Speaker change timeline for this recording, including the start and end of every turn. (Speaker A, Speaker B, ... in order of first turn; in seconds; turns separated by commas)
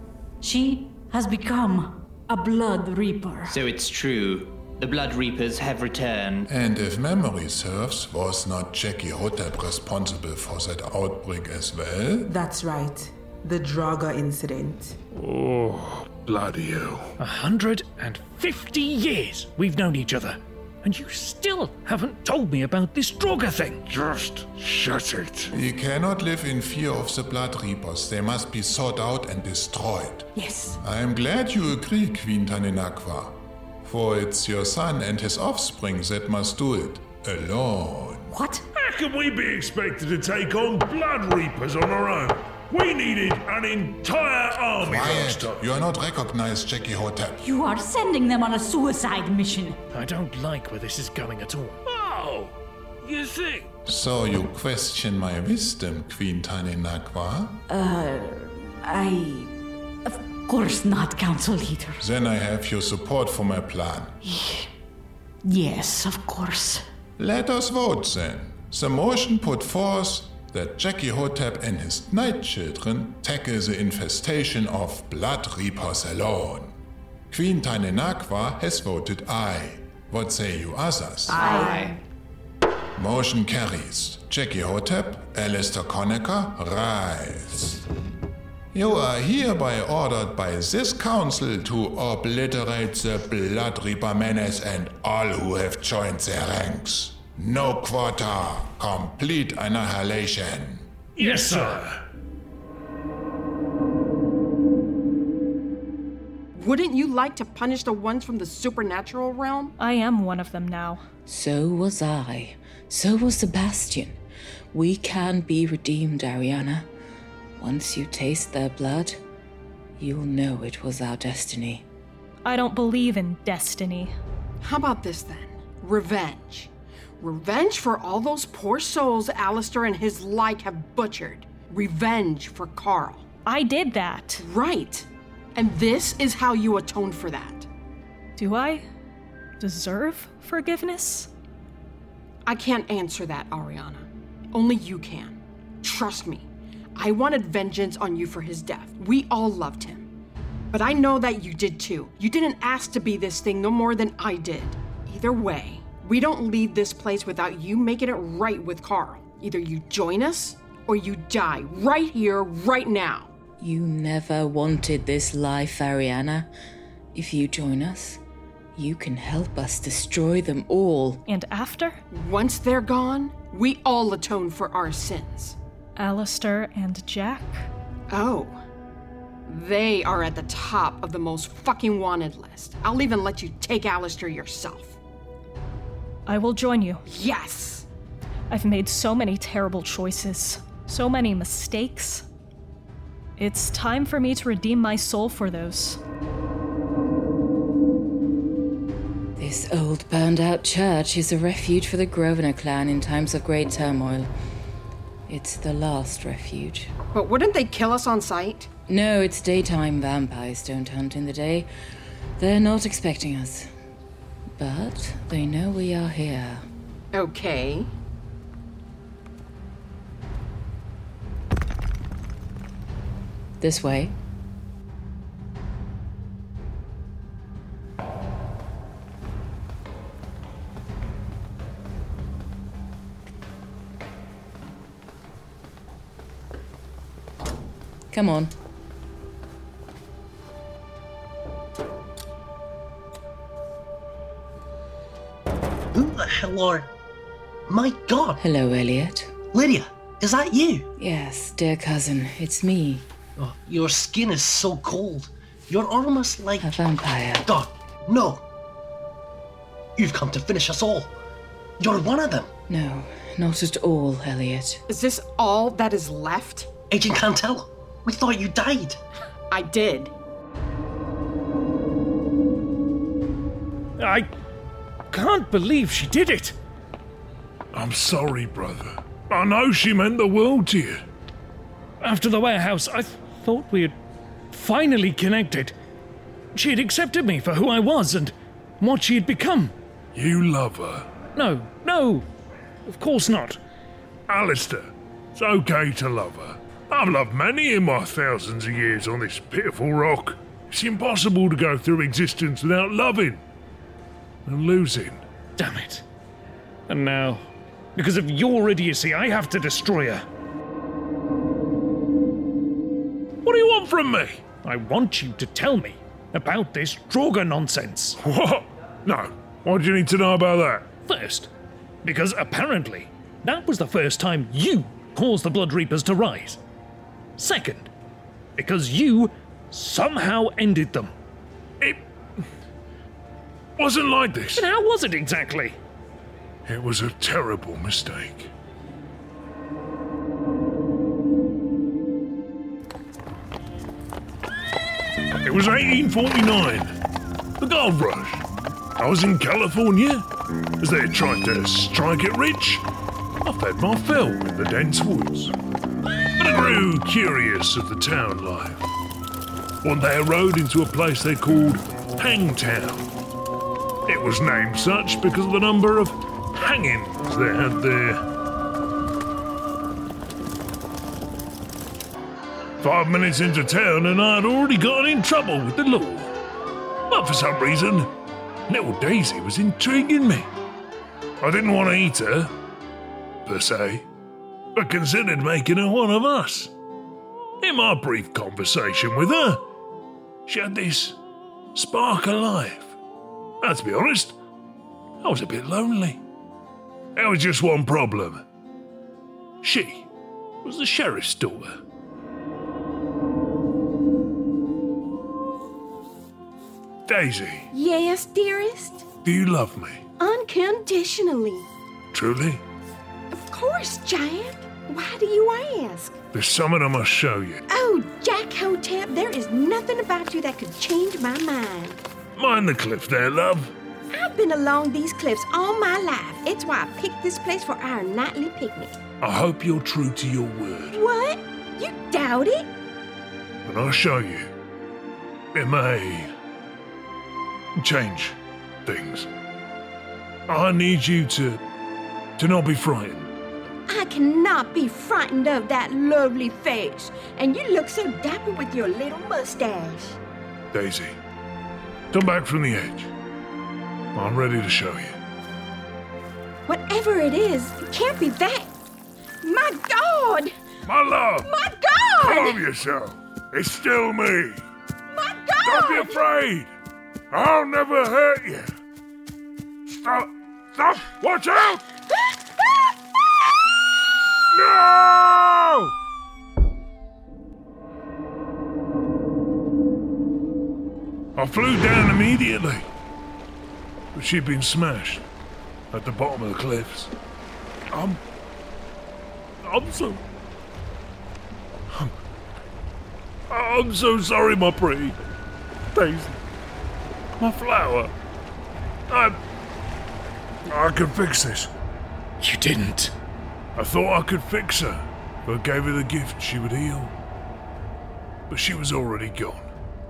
Speaker A: 0.4-3.6, Speaker B: 3.5-6.5, Speaker C: 6.5-12.3, Speaker D: 12.3-14.9, Speaker E: 15.2-17.1, Speaker F: 17.2-23.8, Speaker E: 23.9-25.5, Speaker C: 25.5-38.3, Speaker A: 38.3-38.6, Speaker E: 38.7-45.7, Speaker C: 44.8-47.4, Speaker A: 47.4-49.8, Speaker F: 49.9-51.8, Speaker E: 51.9-52.5, Speaker E: 53.0-53.6, Speaker C: 53.9-57.6, Speaker A: 57.7-59.5, Speaker A: 60.0-62.0, Speaker C: 62.0-64.1, Speaker A: 64.2-64.7, Speaker A: 65.4-66.8, Speaker C: 67.2-76.7, Speaker C: 77.3-81.5, Speaker B: 81.3-82.0, Speaker C: 82.9-87.8, Speaker C: 88.7-100.8, Speaker E: 101.2-102.0, Speaker F: 101.2-101.8, Speaker G: 106.5-109.7, Speaker H: 109.8-111.0, Speaker I: 111.2-114.2, Speaker I: 114.7-116.9, Speaker I: 117.6-119.2, Speaker I: 120.0-121.8, Speaker H: 122.4-124.1, Speaker G: 124.6-126.7, Speaker G: 127.2-133.2, Speaker H: 133.4-134.4, Speaker G: 134.4-137.7, Speaker H: 138.4-138.8, Speaker H: 139.6-141.3, Speaker G: 142.4-150.1, Speaker G: 150.7-163.3, Speaker I: 163.6-166.5, Speaker I: 167.1-168.2, Speaker I: 168.8-171.2, Speaker H: 171.2-172.0, Speaker G: 172.1-175.6, Speaker H: 176.0-177.7, Speaker G: 178.1-178.6, Speaker G: 179.5-185.0, Speaker H: 186.2-187.0, Speaker G: 187.1-187.8, Speaker H: 188.5-192.2, Speaker H: 193.4-196.0, Speaker I: 199.4-204.3, Speaker I: 205.3-206.9, Speaker G: 207.1-208.7, Speaker I: 208.9-211.7, Speaker I: 212.4-213.7, Speaker I: 214.6-216.6, Speaker G: 217.1-217.9, Speaker I: 223.6-224.1, Speaker I: 238.1-238.5, Speaker J: 245.9-246.9, Speaker J: 247.7-248.4, Speaker I: 248.4-249.3, Speaker J: 249.5-250.8, Speaker I: 251.0-253.0, Speaker J: 253.4-256.8, Speaker I: 256.6-257.5, Speaker J: 257.5-258.4, Speaker J: 260.0-261.1, Speaker J: 261.8-262.5, Speaker I: 262.7-264.8, Speaker G: 264.9-266.7, Speaker J: 266.9-269.0, Speaker G: 269.5-270.1, Speaker F: 274.0-274.3, Speaker F: 275.1-276.5, Speaker E: 277.7-281.0, Speaker F: 282.0-283.9, Speaker F: 284.5-285.7, Speaker F: 286.5-289.7, Speaker E: 290.1-291.1, Speaker F: 291.3-292.2, Speaker F: 292.9-293.6, Speaker E: 294.3-303.4, Speaker E: 304.4-305.2, Speaker F: 305.6-306.0, Speaker F: 306.9-307.4, Speaker F: 307.9-310.2, Speaker E: 313.4-314.4, Speaker F: 314.6-318.2, Speaker E: 318.2-320.9, Speaker F: 321.0-321.5, Speaker F: 322.0-326.6, Speaker F: 327.4-327.9, Speaker F: 328.6-331.1, Speaker E: 333.8-334.6, Speaker F: 334.6-335.8, Speaker E: 336.6-338.5, Speaker E: 345.4-346.9, Speaker E: 347.6-348.4, Speaker E: 349.0-350.2, Speaker E: 350.8-352.8, Speaker E: 353.4-355.5, Speaker E: 356.4-358.9, Speaker E: 359.8-363.1, Speaker E: 364.1-368.2, Speaker E: 372.8-376.3, Speaker E: 377.1-378.1, Speaker E: 378.7-380.5, Speaker E: 381.4-382.5, Speaker E: 383.4-384.0, Speaker E: 384.7-386.7, Speaker E: 387.6-389.6, Speaker E: 390.5-391.2, Speaker E: 391.7-392.9, Speaker E: 393.6-394.3, Speaker E: 395.2-396.2, Speaker E: 397.1-398.4, Speaker E: 399.6-400.1, Speaker E: 400.6-401.8, Speaker E: 407.1-407.7, Speaker K: 407.7-409.1, Speaker E: 409.2-410.0, Speaker K: 410.2-411.7, Speaker E: 412.1-412.6, Speaker K: 413.3-416.2, Speaker E: 416.3-417.6, Speaker K: 417.7-422.0, Speaker E: 422.4-423.7, Speaker K: 424.1-429.0, Speaker E: 429.2-431.0, Speaker K: 430.9-432.7, Speaker E: 433.6-434.5, Speaker E: 435.5-436.3, Speaker E: 437.8-439.3, Speaker E: 440.5-441.6, Speaker E: 442.4-443.3, Speaker K: 443.9-450.2, Speaker E: 450.7-451.1, Speaker E: 452.1-453.1, Speaker E: 454.1-455.1, Speaker K: 456.7-458.7, Speaker K: 459.4-460.5, Speaker E: 460.8-461.5, Speaker K: 461.4-462.6, Speaker E: 462.2-464.6, Speaker K: 465.1-466.2, Speaker E: 465.6-466.7, Speaker E: 467.3-468.7, Speaker E: 469.9-471.8, Speaker E: 474.5-475.9, Speaker E: 481.4-482.9, Speaker E: 484.1-485.2, Speaker E: 485.9-487.1, Speaker E: 487.9-488.2, Speaker E: 489.6-490.2, Speaker E: 493.5-495.2, Speaker E: 495.9-496.3, Speaker E: 497.4-498.1, Speaker E: 499.1-499.4, Speaker E: 500.7-501.7, Speaker F: 502.4-503.1, Speaker E: 503.8-507.1, Speaker E: 508.5-509.7